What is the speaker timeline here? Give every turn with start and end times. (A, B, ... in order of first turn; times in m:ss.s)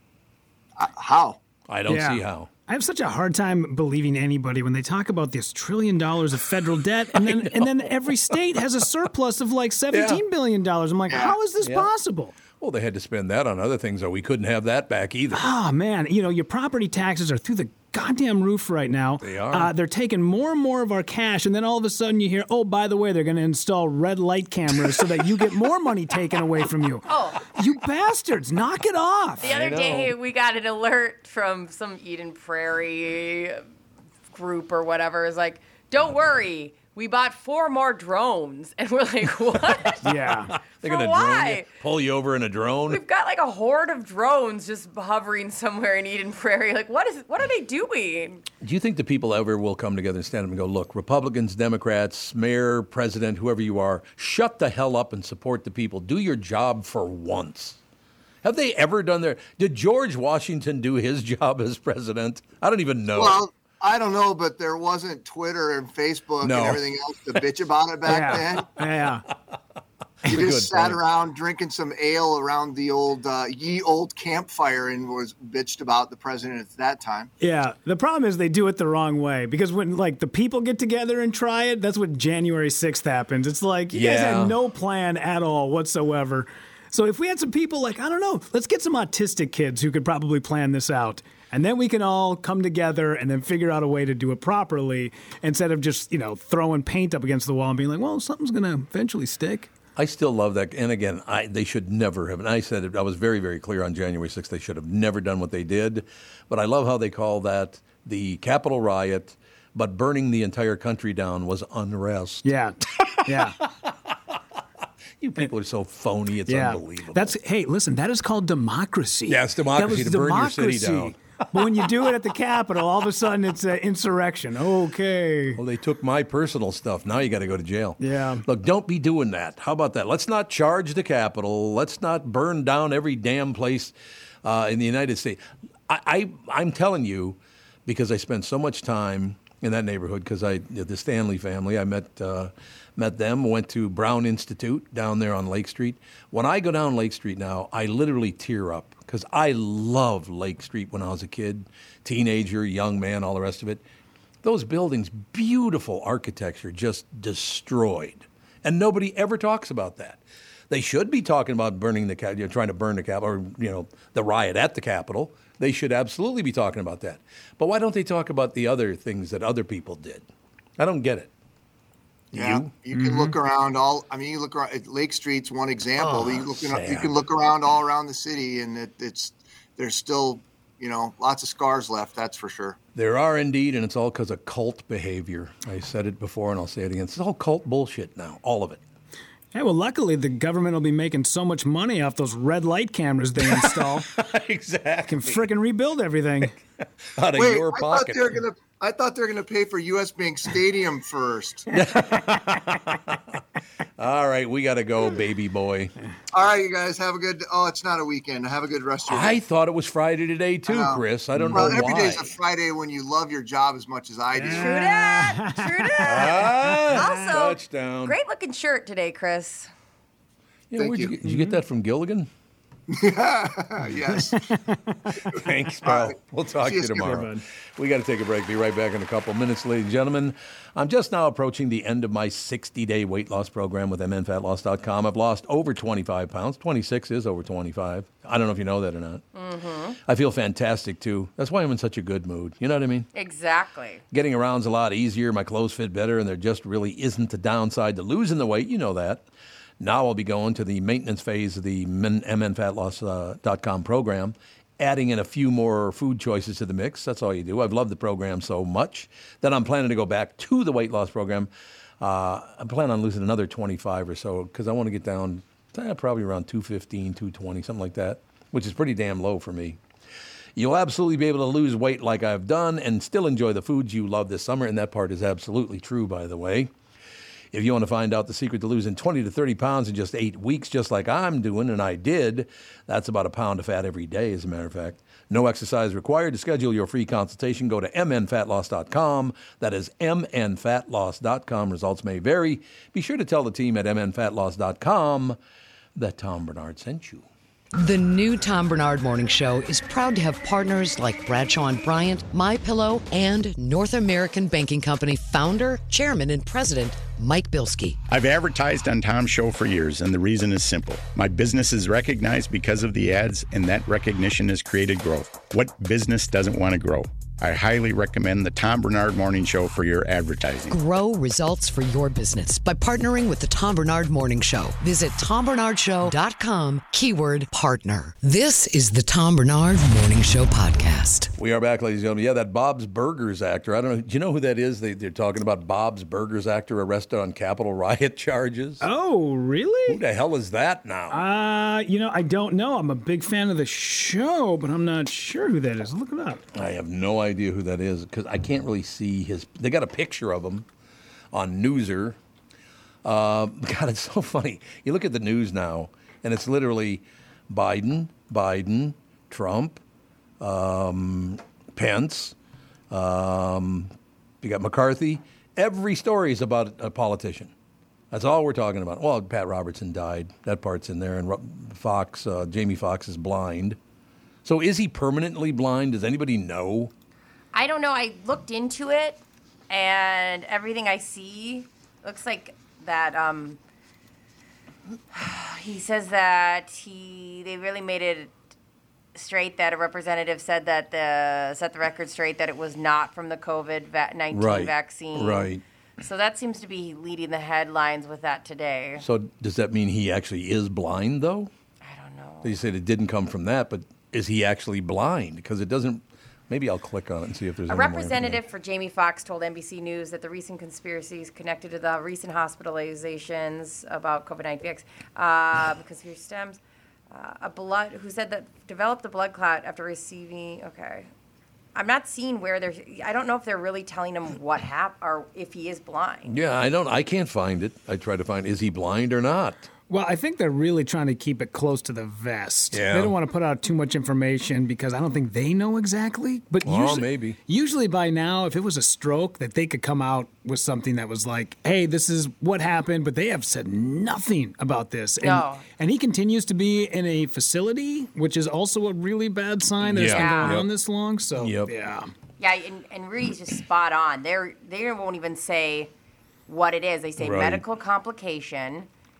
0:00.8-0:01.4 A
0:01.7-0:02.5 B
0:01.9-0:12.4 C
0:07.1-0:08.3 B
0:09.9-0:10.2 B
0:11.1-0:11.4 A
0:11.6-0:11.9 B
0:12.5-0:15.5 B
0:15.3-0:29.5 C
0:19.2-0:19.7 B
0:27.1-0:27.5 D
0:29.4-0:30.1 B
0:29.4-0:33.6 D
0:34.3-0:40.1 D
0:40.0-0:40.5 C
0:40.5-0:43.0 B
0:40.8-0:41.7 D
0:42.9-0:48.4 D
0:48.6-0:57.8 B
0:58.4-1:03.4 B
1:03.1-1:08.7 A
1:06.4-1:06.9 B
1:08.1-1:09.2 C
1:10.2-1:11.0 B
1:10.3-1:17.3 A
1:17.4-1:39.7 C
1:23.9-1:24.6 B
1:40.0-1:54.1 B
1:52.4-1:53.6 C
1:55.2-1:57.4 B
1:56.5-2:05.6 C
1:59.3-2:01.8 B
2:05.6-2:33.8 B
2:08.0-2:08.4 C
2:34.4-2:50.2 B
2:50.8-2:51.3 B
2:52.3-2:52.8 B
2:52.3-3:02.8 A
2:56.0-2:57.1 B
3:03.0-3:08.8 B
3:09.5-3:14.1 C
3:13.4-3:15.4 B
3:15.1-3:16.6 C
3:17.2-3:18.4 B
3:17.3-3:21.7 A
3:21.7-3:23.4 B
3:24.0-3:25.9 B
3:26.3-3:29.4 A
3:29.1-3:32.3 B
3:30.7-3:34.9 A
3:31.4-3:31.8 C
3:34.4-3:37.0 C
3:34.5-3:39.7 D
3:36.0-3:38.2 B
3:40.7-3:42.3 B
3:40.8-3:41.1 A
3:41.2-3:41.6 C
3:42.9-3:44.4 A
3:44.1-3:45.0 C
3:45.3-3:59.2 B
3:45.8-3:47.1 A
3:47.0-3:47.4 C
3:59.3-4:00.0 D
4:00.1-4:03.1 B
4:03.1-4:04.0 D
4:04.1-4:09.2 B
4:09.8-4:21.5 B
4:22.0-4:29.8 B
4:30.6-4:36.7 B
4:37.5-4:55.4 B
4:56.0-4:57.3 B
4:57.8-5:08.0 E
5:08.1-5:20.8 F
5:20.7-5:31.3 E
5:31.4-5:38.9 B
5:38.8-5:40.0 C
5:39.9-5:41.2 B
5:41.1-5:46.4 C
5:46.5-5:50.7 B
5:51.3-5:52.2 B
5:53.0-5:59.8 B
6:00.4-6:02.4 B
6:02.9-6:03.9 B
6:04.4-6:07.5 B
6:08.1-6:13.8 B
6:14.4-6:16.9 B
6:17.5-6:23.6 D
6:25.1-6:28.3 D
6:29.2-6:39.0 D
6:34.3-6:35.6 B
6:39.0-6:41.5 B
6:41.8-6:42.6 D
6:42.4-6:48.4 B
6:47.7-6:56.6 D
6:57.1-7:01.1 D
7:01.8-7:06.3 D
7:06.3-7:09.7 B
7:09.9-7:32.1 C
7:12.7-7:13.2 B
7:16.6-7:17.4 B
7:25.2-7:25.6 D
7:29.8-7:30.7 B
7:30.1-7:30.6 D
7:31.4-7:31.7 B
7:32.4-7:35.9 D
7:36.5-7:38.9 D
7:37.2-7:37.6 B